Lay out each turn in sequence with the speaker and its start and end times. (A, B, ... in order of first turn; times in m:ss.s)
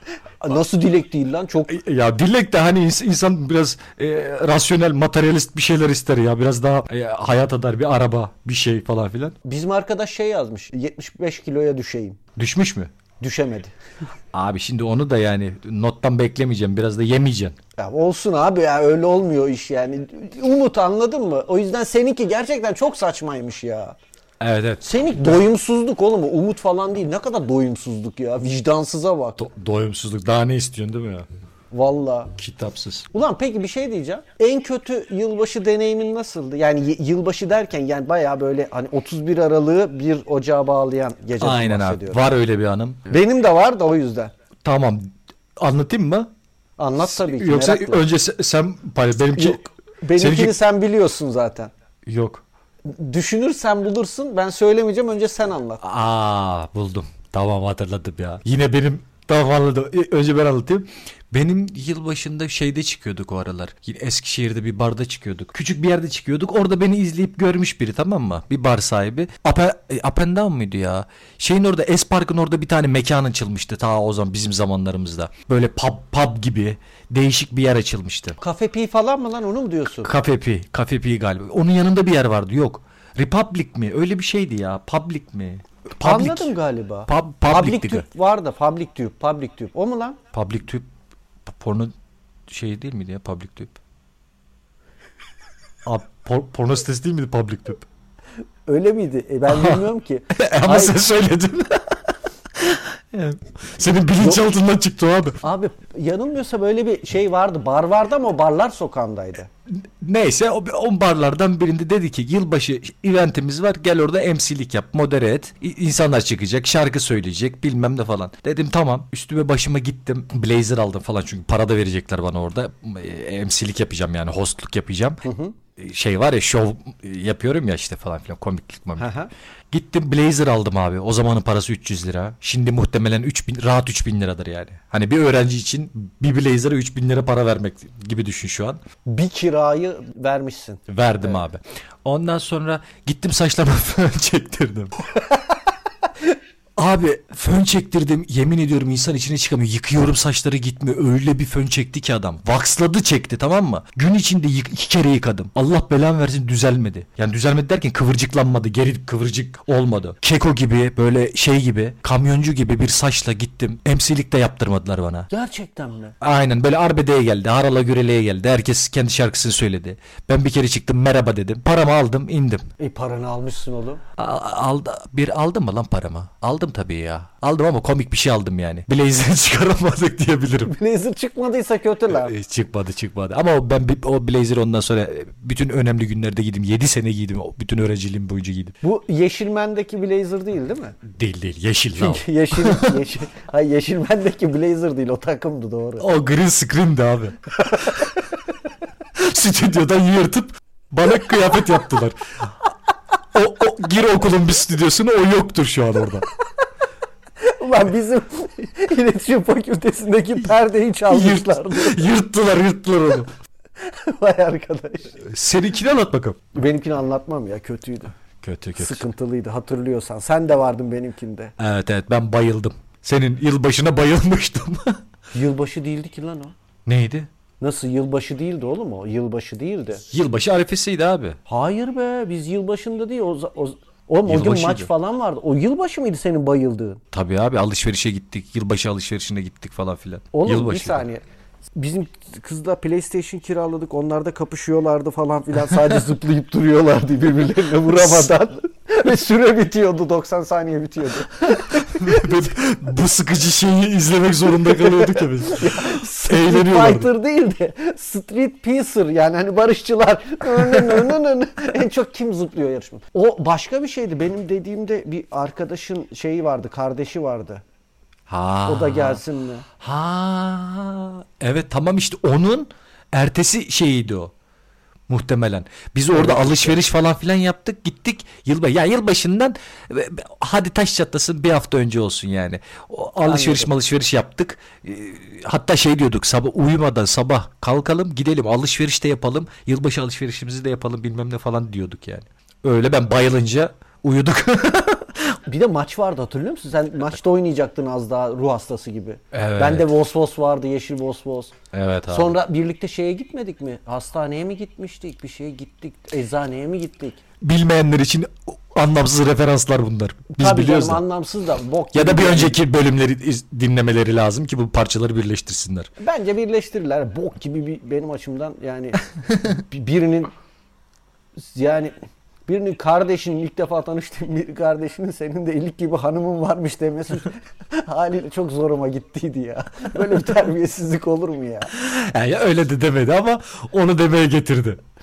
0:00.4-0:01.8 A
0:01.7-0:09.4 B
0:09.4-0:12.2 A
0:12.4-0:12.9 B
0:13.2-0:13.7 A
0:14.3-0:17.6 B
0:17.8-0:24.0 A
0:24.4-0:24.9 B
0:24.8-0:29.4 A
0:29.4-0:31.3 B
0:31.7-0:32.3 A
0:32.4-0:33.1 B
0:33.1-0:42.2 A
0:41.4-0:43.1 B
0:43.1-0:44.3 A
0:44.6-0:46.3 B
0:46.8-0:48.0 A
0:47.0-0:49.6 B
0:49.3-0:51.7 A
0:50.2-0:50.6 B
0:52.0-0:52.4 B
0:52.8-0:55.8 A
0:55.8-1:18.4 B
1:18.4-1:20.1 A
1:20.0-1:26.5 B
1:26.0-1:30.2 A
1:27.1-1:28.0 B
1:30.3-1:30.9 B
1:31.4-1:31.9 B
1:32.5-1:33.8 B
1:35.8-1:37.8 B
1:38.7-1:41.0 A
1:39.5-1:45.4 B
1:45.4-1:49.5 A
1:49.7-2:05.2 B
2:05.2-2:05.6 A
2:05.8-2:09.1 B
2:09.0-2:09.3 A
2:09.7-2:18.8 B
2:19.0-2:21.4 A
2:20.9-2:25.1 B
2:26.8-2:45.3 B
2:45.3-2:46.1 A
2:46.2-2:52.7 B
2:52.8-2:54.0 A
2:54.2-3:00.7 B
3:00.7-3:02.3 A
3:02.1-3:08.8 B
3:08.8-3:11.0 A
3:11.0-3:13.0 B
3:12.0-3:16.1 A
3:16.0-3:18.2 B
3:19.1-3:22.5 B
3:23.3-3:26.3 B
3:27.4-3:32.1 A
3:31.1-3:33.3 B
3:33.8-3:35.2 A
3:35.2-3:36.4 B
3:36.5-3:38.1 A
3:38.4-3:39.0 B
3:38.8-3:41.5 A
3:41.6-3:45.0 B
3:45.3-3:46.5 A
3:46.8-3:47.3 B
3:47.6-3:50.0 A
3:50.1-3:51.4 B
3:51.5-3:57.0 A
3:54.2-3:54.9 B
3:57.1-4:01.0 B
4:00.3-4:01.2 A
4:01.7-4:12.3 A
4:07.9-4:08.3 B
4:11.5-4:17.1 B
4:14.7-4:27.6 A
4:28.3-4:29.2 B
4:28.6-4:29.6 A
4:29.8-4:34.3 B
4:35.1-4:55.4 B
4:36.1-4:36.8 A
4:43.2-4:43.7 A
4:55.4-5:01.5 A
4:59.3-4:59.9 B
5:01.7-5:02.3 B
5:02.1-5:07.2 A
5:07.4-5:11.0 B
5:10.4-5:12.6 A
5:11.9-5:15.9 B
5:16.0-5:20.3 A
5:21.4-5:21.9 A
5:22.5-5:31.7 A
5:31.7-5:34.8 B